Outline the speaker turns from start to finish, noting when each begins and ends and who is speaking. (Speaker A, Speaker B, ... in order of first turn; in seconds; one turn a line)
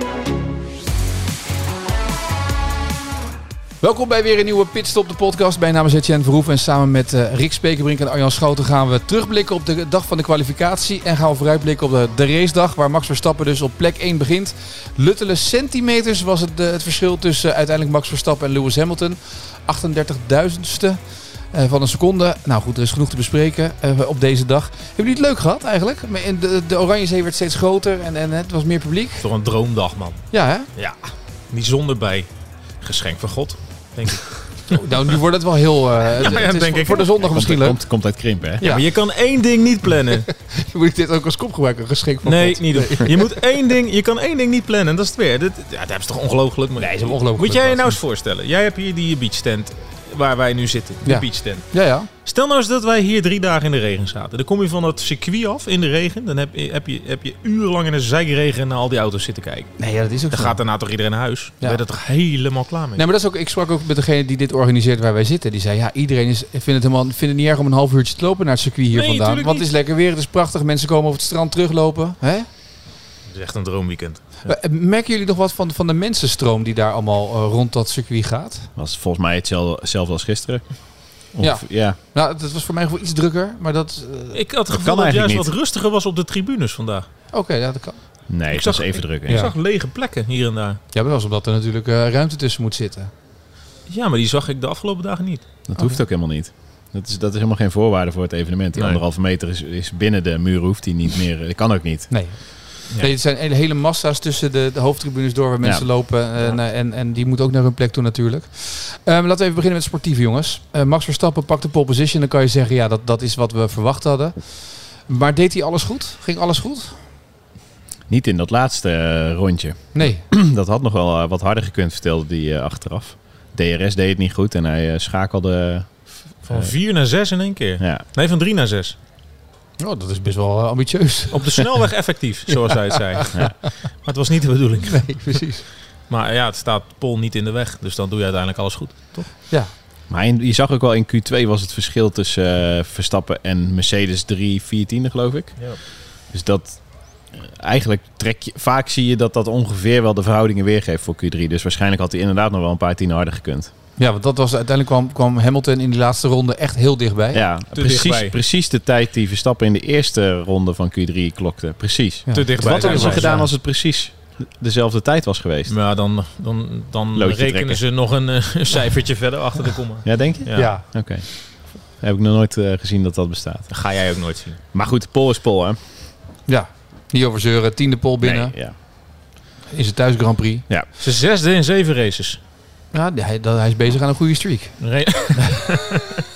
Speaker A: 3.8-21.0
Speaker A: 21.5-29.3
Speaker B: 29.2-32.3
Speaker A: 30.3-30.7
Speaker B: 32.8-34.8
Speaker A: 34.7-37.8
Speaker B: 36.1-37.2
Speaker C: 37.2-38.8
Speaker B: 38.6-40.3
Speaker A: 40.2-43.5
Speaker B: 42.2-51.7
Speaker A: 46.8-48.0
Speaker A: 51.0-52.1
Speaker B: 52.2-59.7
Speaker A: 59.8-60.6
Speaker B: 60.3-63.0
Speaker A: 63.0-72.5
Speaker B: 68.9-69.7
Speaker B: 73.3-74.5
Speaker A: 74.5-78.7
Speaker C: 78.8-80.7
Speaker C: 81.3-82.0
Speaker A: 81.4-84.4
Speaker B: 84.3-87.1
Speaker C: 84.7-85.5
Speaker A: 87.3-88.0
Speaker C: 88.3-89.5
Speaker B: 88.5-90.8
Speaker A: 89.3-89.5
Speaker A: 90.9-93.1
Speaker B: 93.9-95.4
Speaker C: 95.7-102.1
Speaker A: 102.1-117.0
Speaker C: 105.6-105.9
Speaker C: 118.1-125.9
Speaker A: 120.0-120.3
Speaker B: 126.5-129.0
Speaker C: 126.5-126.7
Speaker A: 129.8-131.7
Speaker B: 131.3-135.4
Speaker A: 132.5-133.3
Speaker A: 134.9-135.7
Speaker B: 136.1-139.3
Speaker C: 140.1-145.7
Speaker C: 146.3-146.8
Speaker C: 147.3-153.7
Speaker A: 154.0-157.4
Speaker C: 157.3-165.7
Speaker B: 157.8-158.3
Speaker A: 162.3-163.5
Speaker B: 162.3-163.4
Speaker B: 165.7-170.8
Speaker C: 167.2-167.8
Speaker C: 170.1-173.7
Speaker A: 170.5-170.8
Speaker B: 173.7-174.6
Speaker C: 174.7-175.8
Speaker A: 176.5-178.6
Speaker C: 178.2-178.8
Speaker A: 179.7-180.7
Speaker B: 181.0-182.4
Speaker A: 182.9-184.8
Speaker B: 184.8-186.2